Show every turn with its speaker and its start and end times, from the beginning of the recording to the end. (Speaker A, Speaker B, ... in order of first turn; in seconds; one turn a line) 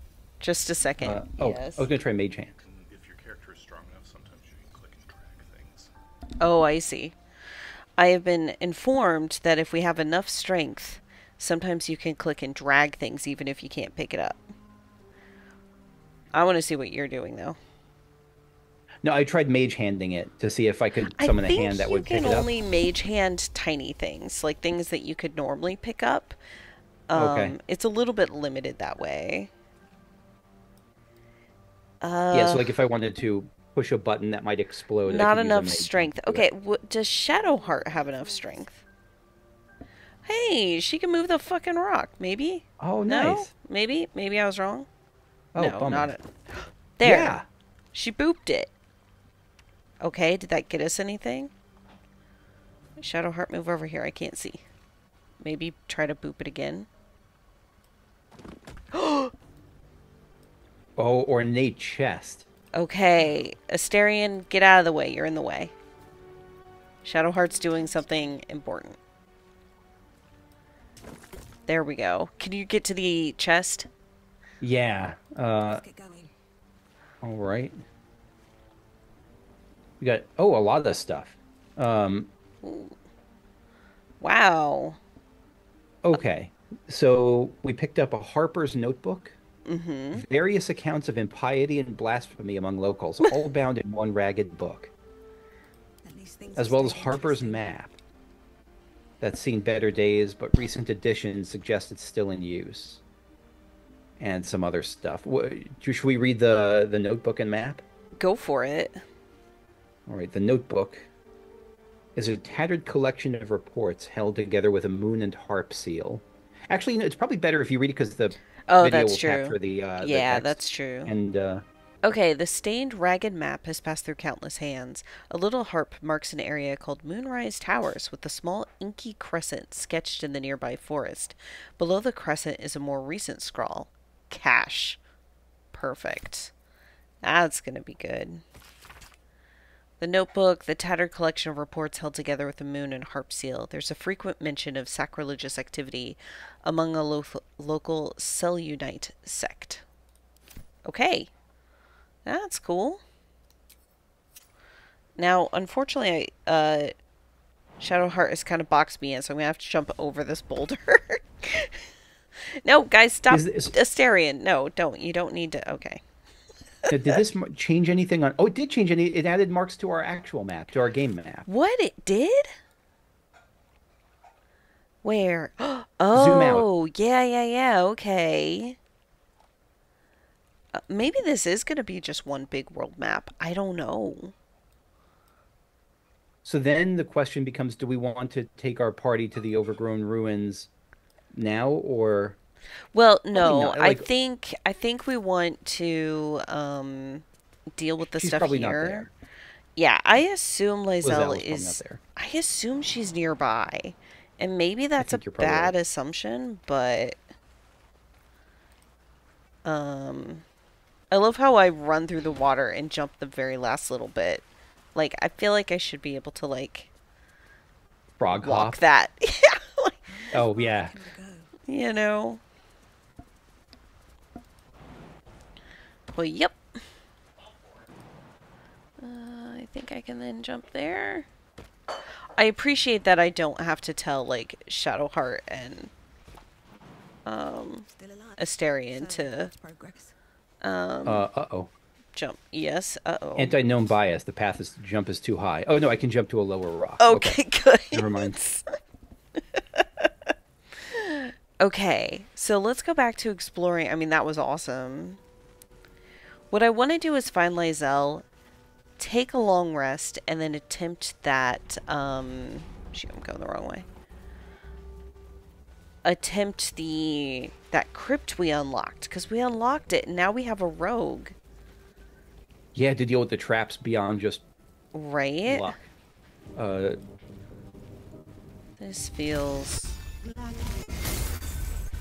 Speaker A: 0.4-1.9
Speaker B: 1.0-2.5
Speaker C: 2.6-5.9
Speaker A: 6.4-7.2
Speaker A: 8.0-14.4
Speaker A: 16.3-17.6
Speaker B: 19.0-22.5
Speaker A: 21.2-26.4
Speaker A: 27.1-29.5
Speaker B: 27.1-27.6
Speaker A: 32.0-32.7
Speaker B: 32.3-36.5
Speaker A: 35.0-38.8
Speaker D: 37.4-38.7
Speaker A: 40.3-44.9
Speaker B: 42.8-43.5
Speaker B: 45.5-46.1
Speaker A: 45.6-47.4
Speaker B: 47.0-47.5
Speaker A: 47.9-48.7
Speaker A: 50.0-51.5
Speaker A: 53.0-54.6
Speaker A: 55.4-56.9
Speaker A: 58.9-59.3
Speaker B: 61.0-62.5
Speaker A: 62.7-65.7
Speaker A: 67.0-69.0
Speaker A: 71.7-73.9
Speaker B: 74.6-75.8
Speaker D: 75.7-76.3
Speaker B: 77.2-77.8
Speaker B: 80.0-82.3
Speaker A: 82.6-83.0
Speaker A: 84.2-85.0
Speaker B: 86.0-89.4
Speaker A: 89.7-90.2
Speaker B: 90.1-94.9
Speaker D: 96.0-97.7
Speaker B: 96.5-98.0
Speaker B: 99.2-103.0
Speaker B: 104.2-107.8
Speaker A: 108.2-109.0
Speaker B: 110.1-111.1
Speaker B: 112.2-121.7
Speaker A: 118.7-121.1
Speaker A: 122.0-135.0
Speaker A: 135.7-136.5
Speaker A: 137.2-138.4
Speaker A: 140.0-149.8
Speaker A: 150.8-151.3
Speaker A: 152.2-153.0
Speaker A: 155.2-156.9
Speaker A: 157.8-161.8
Speaker A: 162.6-166.0
Speaker B: 163.3-163.7
Speaker A: 166.9-167.2
Speaker B: 166.9-171.5
Speaker A: 171.5-172.5
Speaker A: 175.0-178.8
Speaker B: 176.1-176.7
Speaker A: 180.8-184.3
Speaker B: 186.4-190.7
Speaker B: 191.3-192.4
Speaker A: 192.9-199.1
Speaker B: 193.3-194.1
Speaker B: 198.1-199.1
Speaker A: 199.8-207.2
Speaker B: 201.0-202.0
Speaker B: 205.0-205.7
Speaker A: 209.7-210.4
Speaker A: 211.1-216.9
Speaker B: 218.2-218.8
Speaker A: 218.4-220.0
Speaker D: 220.1-221.5
Speaker B: 220.3-221.0
Speaker A: 221.7-222.4
Speaker A: 226.1-226.6
Speaker A: 229.0-231.3
Speaker A: 232.4-235.9
Speaker A: 237.2-237.9
Speaker D: 237.9-240.1
Speaker A: 238.4-239.5
Speaker A: 240.6-241.2
Speaker B: 241.1-241.7
Speaker A: 242.2-243.6
Speaker B: 243.4-247.4
Speaker A: 247.0-248.7
Speaker B: 247.9-248.3
Speaker A: 249.6-255.2
Speaker A: 256.5-258.2
Speaker A: 259.0-263.9
Speaker A: 266.0-271.4
Speaker B: 272.7-274.4
Speaker A: 274.9-275.8
Speaker B: 275.5-275.8
Speaker B: 276.6-277.0
Speaker A: 278.8-280.0
Speaker D: 280.2-280.9